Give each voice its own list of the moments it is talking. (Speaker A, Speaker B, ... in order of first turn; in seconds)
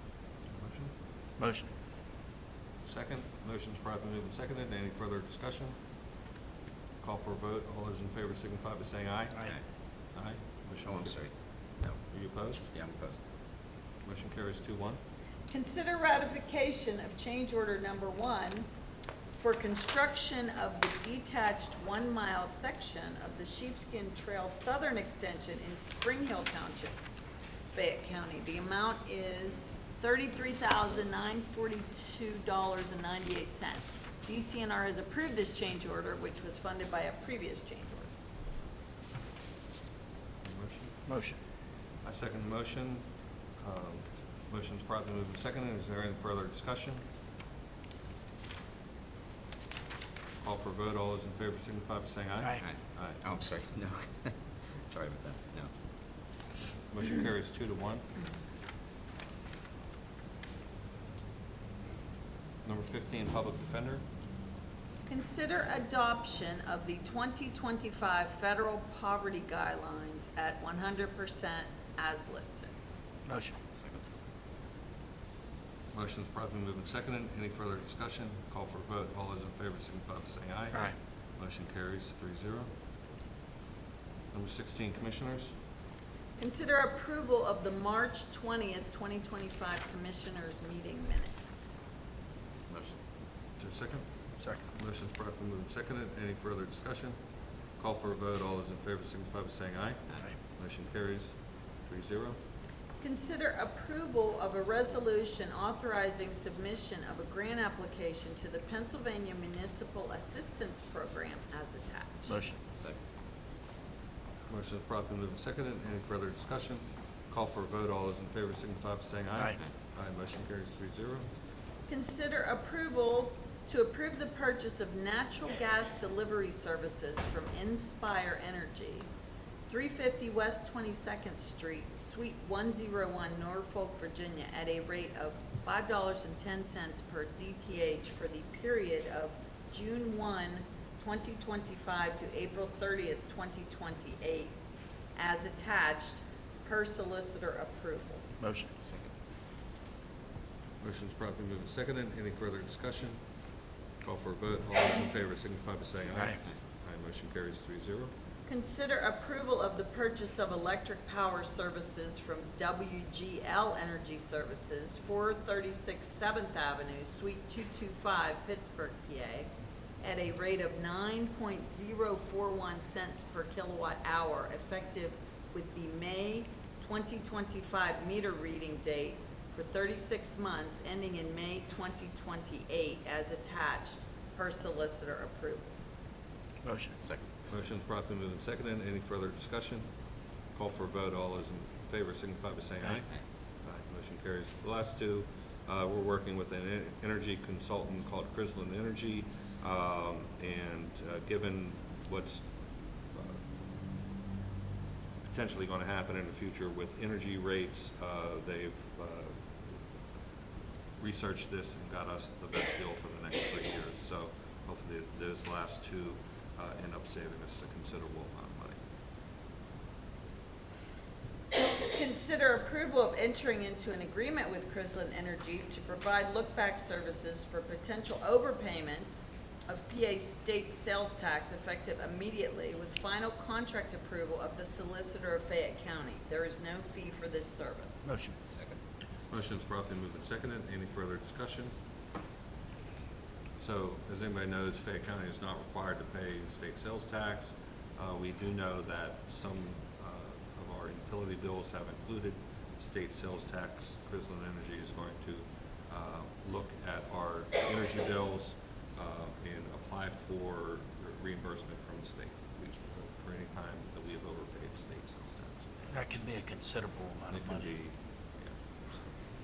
Speaker A: 0.5-0.9, 2.8-5.7, 7.0-9.5, 10.1-11.2, 11.8-12.6, 14.0-15.0, 40.4-40.9, 42.0-43.0, 43.6-47.0, 50.4-53.2, 56.9-58.0, 62.6-64.0, 75.9-82.7, 84.3-85.5, 93.6-94.0, 94.7-97.2, 97.8-100.0, 100.6-101.3, 101.9-102.4, 114.5-121.2, 150.8-153.2, 154.0-158.1, 187.5-189.8, 190.5-193.1, 193.6-202.5, 203.1-203.4, 205.2-209.8, 211.0-218.8, 239.3-241.7, 243.6-265.9, 267.3-269.1
Speaker B: 1.4-1.7, 41.1-41.4, 73.3-73.5, 112.3-112.6, 148.4-148.7, 186.6-187.0, 238.0-238.3, 265.9-267.7
Speaker C: 10.8-11.3, 12.7-13.2, 52.6-55.7, 73.7-74.0, 92.7-93.0, 148.8-149.1, 187.0-187.2, 238.5-238.8
Speaker D: 15.5-18.7, 19.4-27.0, 27.7-38.1, 65.0-72.7, 86.4-91.7, 103.0-112.3, 121.9-129.1, 129.7-144.5, 145.2-148.2, 158.5-185.7, 221.5-238.0